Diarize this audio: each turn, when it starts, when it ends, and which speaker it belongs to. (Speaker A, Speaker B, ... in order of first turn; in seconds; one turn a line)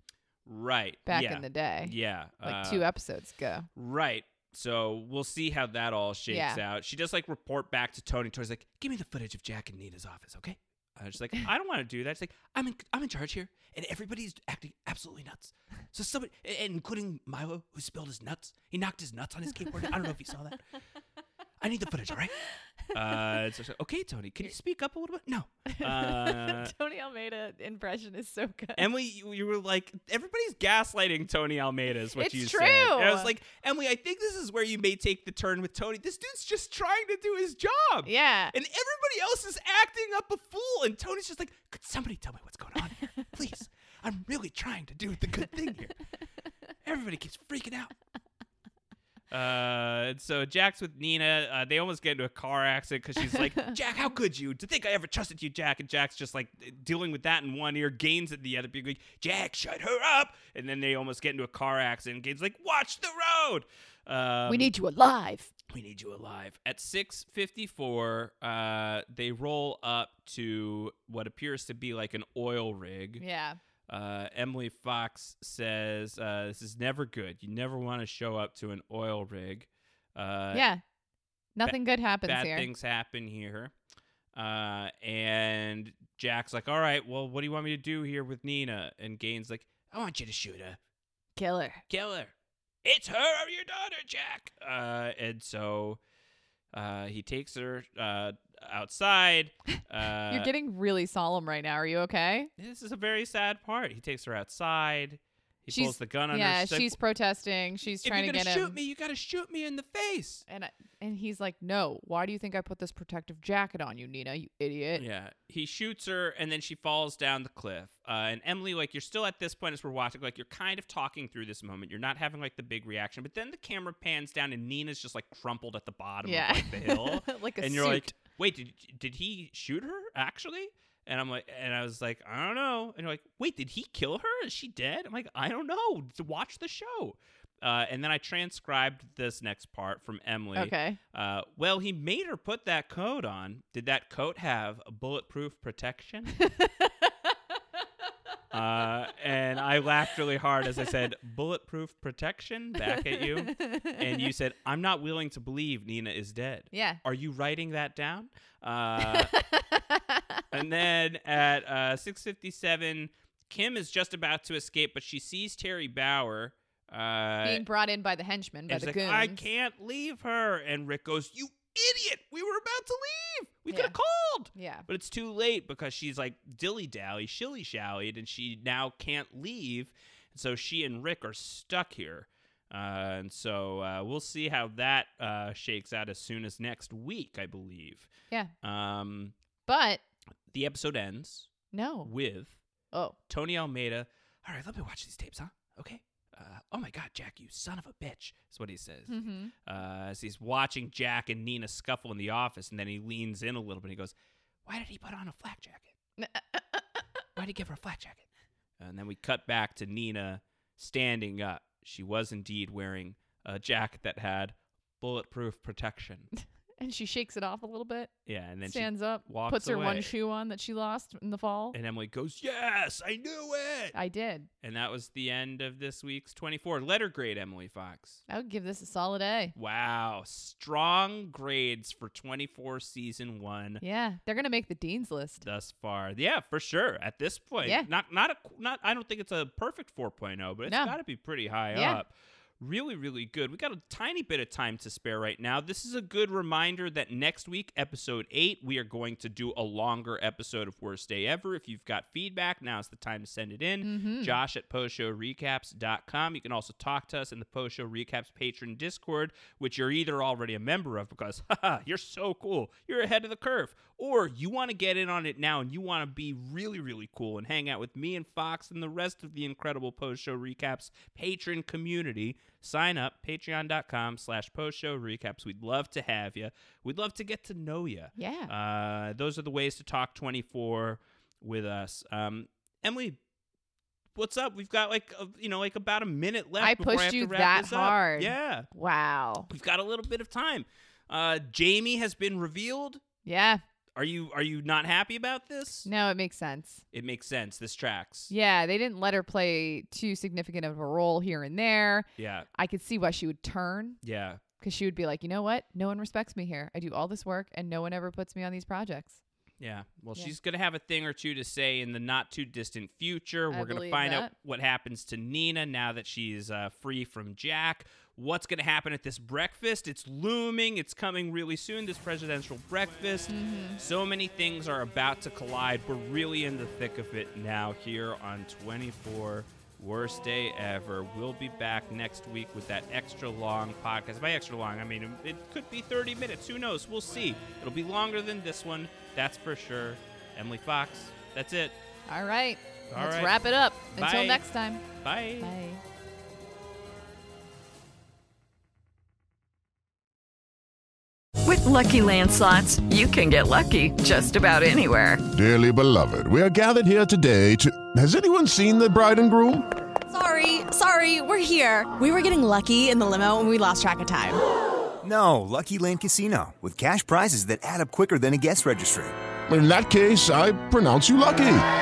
Speaker A: 0.5-2.8
Speaker B: 1.1-3.7
Speaker A: 3.8-20.6
Speaker B: 6.3-6.6
Speaker A: 21.6-22.4
Speaker A: 22.9-26.7
Speaker B: 25.7-28.9
Speaker A: 28.8-45.9
Speaker B: 32.1-33.3
Speaker B: 38.0-38.5
Speaker A: 46.8-47.9
Speaker A: 49.3-64.7
Speaker B: 64.5-65.5
Speaker A: 65.7-73.2
Speaker B: 73.2-73.6
Speaker A: 73.9-80.6
Speaker B: 80.5-80.8
Speaker B: 81.5-82.7
Speaker A: 81.7-83.7
Speaker A: 84.3-90.8
Speaker B: 91.3-91.8
Speaker A: 91.9-92.3
Speaker A: 92.8-96.0
Speaker A: 96.7-100.5
Speaker B: 100.3-102.5
Speaker A: 102.6-107.0
Speaker B: 105.7-108.7
Speaker A: 108.0-110.4
Speaker B: 110.5-115.0
Speaker A: 114.9-146.4
Speaker B: 126.2-128.1
Speaker B: 140.5-141.0
Speaker B: 146.4-147.3
Speaker A: 148.5-159.3
Speaker B: 153.1-154.2
Speaker B: 156.7-157.0
Speaker B: 159.0-160.4
Speaker A: 160.5-167.6
Speaker B: 167.4-169.4
Speaker A: 168.7-188.1
Speaker B: 173.7-173.9
Speaker B: 174.5-174.8
Speaker A: 188.6-189.3
Speaker B: 189.7-190.0
Speaker A: 190.5-191.5
Speaker B: 191.7-192.1
Speaker A: 192.0-192.6
Speaker A: 193.3-204.1
Speaker B: 199.1-199.5
Speaker A: 204.7-205.9
Speaker B: 206.2-207.0
Speaker A: 207.3-208.2
Speaker A: 208.8-216.3
Speaker B: 216.8-218.1
Speaker A: 218.2-220.1
Speaker B: 218.7-221.8
Speaker A: 221.7-223.9
Speaker B: 223.9-224.5
Speaker A: 224.6-228.2
Speaker B: 228.3-229.5
Speaker A: 229.6-233.8
Speaker B: 233.8-235.4
Speaker A: 235.4-283.2
Speaker B: 237.6-237.9
Speaker B: 240.7-240.9
Speaker B: 241.7-242.0
Speaker B: 253.8-254.3
Speaker B: 278.2-278.5
Speaker A: 284.1-288.7
Speaker B: 286.6-289.5
Speaker A: 289.5-293.0
Speaker B: 293.2-293.6
Speaker A: 293.9-295.9
Speaker B: 295.8-296.8
Speaker A: 296.9-298.3
Speaker B: 298.3-302.1
Speaker A: 302.2-302.5
Speaker B: 302.6-304.0
Speaker A: 304.0-304.4
Speaker B: 304.6-309.2
Speaker A: 309.6-341.8
Speaker B: 313.5-314.3
Speaker B: 323.3-323.8
Speaker B: 342.1-344.8
Speaker A: 342.9-343.3
Speaker A: 343.8-344.4
Speaker A: 345.0-345.5
Speaker B: 345.4-345.8
Speaker C: 351.4-355.2
Speaker D: 355.3-359.6
Speaker E: 360.1-364.4
Speaker F: 365.0-369.1
Speaker D: 369.5-371.6